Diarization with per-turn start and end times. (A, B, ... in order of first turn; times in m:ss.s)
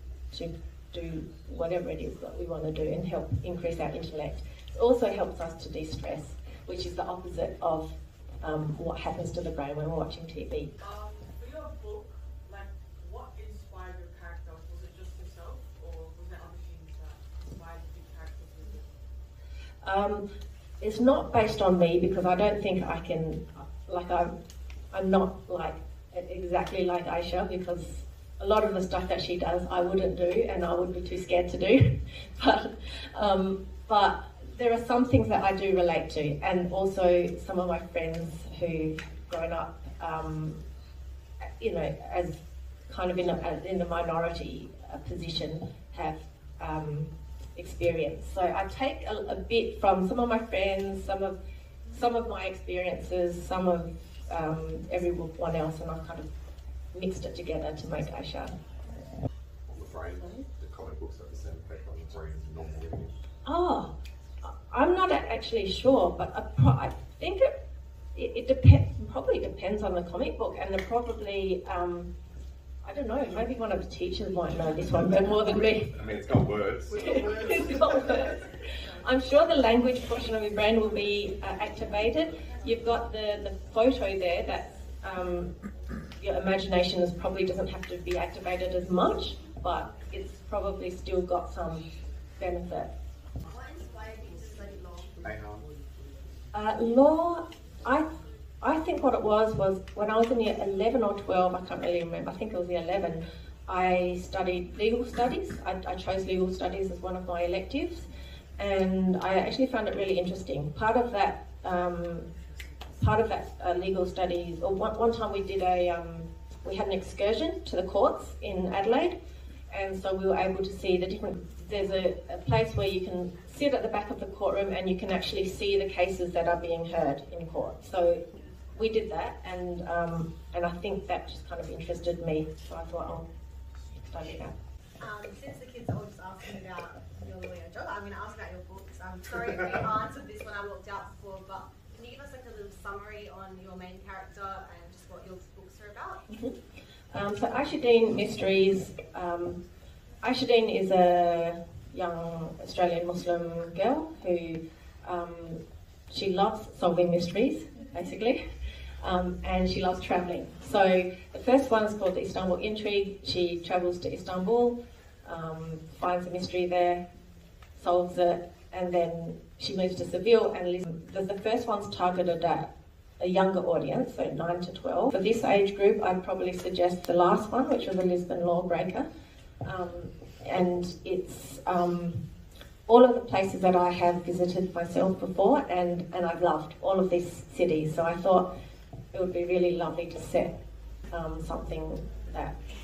0:00.3-0:10.7 A
0:10.8-0:18.9 B
0:19.8-0:20.2 A
0:20.8-0:24.3 A
0:24.9-0:40.6 A
0:41.6-0:51.4 A
0:51.9-0:56.3 A
0:56.9-0:58.5 A
0:59.7-1:03.1 C
1:03.4-1:03.9 A
1:04.7-1:07.5 A
1:08.1-1:12.1 A
1:12.8-1:15.9 A
1:15.9-1:17.8 C
1:17.0-1:18.4 A
1:19.0-1:25.5 A
1:26.2-1:31.8 A
1:32.4-1:32.9 A
1:33.5-1:35.2 D
1:35.2-1:35.6 C
1:36.5-1:38.1 A
1:38.6-1:48.1 A
1:48.6-1:52.3 A
1:53.0-1:59.1 A
1:59.7-2:08.2 A
2:08.7-2:13.2 A
2:14.1-2:14.5 A
2:15.0-2:26.2 D
2:26.3-2:26.5 A
2:27.1-2:29.6 A
2:30.2-2:38.4 A
2:39.0-2:47.0 A
2:47.8-2:59.0 A
2:59.6-3:02.2 A
3:02.9-3:08.5 A
3:09.1-3:10.5 A
3:11.1-3:12.5 A